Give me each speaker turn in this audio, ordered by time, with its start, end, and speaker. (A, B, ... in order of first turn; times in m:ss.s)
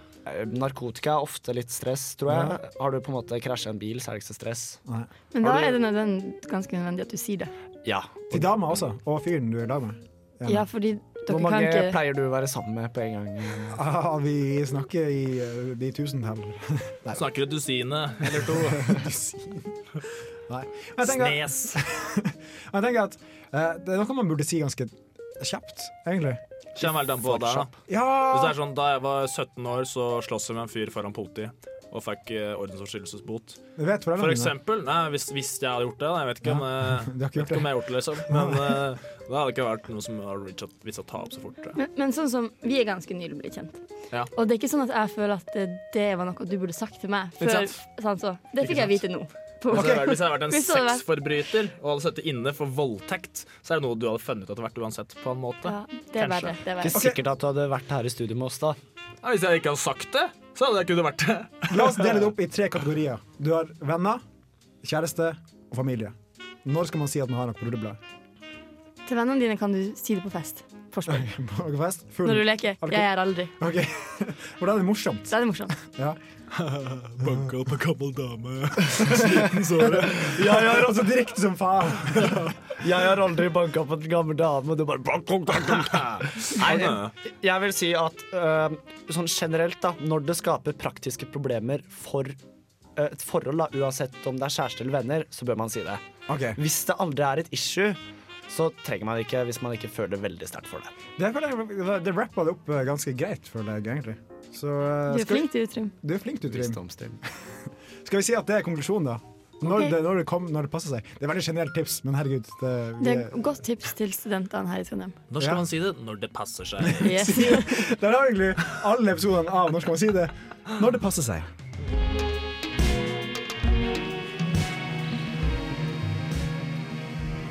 0:00.2-0:04.8 A
0:02.3-0:02.6 B
0:05.3-0:07.5 C
0:05.4-0:05.8 A
0:07.8-0:08.6 A
0:08.3-0:10.7 B
0:10.4-0:12.0 C
0:11.3-0:13.8 A
0:13.7-0:17.2 B
0:17.1-0:18.8 D
0:18.2-0:19.0 A
0:18.5-0:19.8 B
0:20.5-0:28.6 B
0:21.0-0:21.8 A
0:26.8-0:27.8 D
0:28.3-0:33.6 D
0:33.8-0:34.5 B
0:34.2-0:41.8 D
0:36.4-0:37.7 B
0:38.2-0:38.9 B
0:41.8-0:43.8 C
0:44.3-0:51.0 C
0:47.4-0:47.7 D
0:49.7-0:56.6 D
0:49.7-0:50.1 B
0:55.6-0:57.0 C
0:56.8-0:58.8 A
0:56.9-0:57.2 B
0:59.2-1:02.2 D
1:01.7-1:04.2 B
1:04.8-1:08.0 B
1:09.1-1:11.3 C
1:11.1-1:16.2 B
1:12.2-1:13.5 C
1:15.3-1:15.8 C
1:16.5-1:20.3 D
1:17.2-1:17.5 B
1:18.8-1:22.6 B
1:19.8-1:21.3 A
1:22.8-1:32.4 A
1:25.9-1:27.1 D
1:33.0-1:36.0 A
1:36.3-1:36.6 B
1:36.6-1:40.9 A
1:41.2-1:45.5 B
1:45.1-1:45.9 C
1:46.0-1:46.8 B
1:46.5-1:47.2 A
1:47.3-1:53.6 B
1:49.7-1:50.0 C
1:53.0-1:55.2 C
1:55.3-1:57.3 D
1:55.4-1:55.6 B
1:56.8-2:01.5 B
1:57.0-1:57.9 C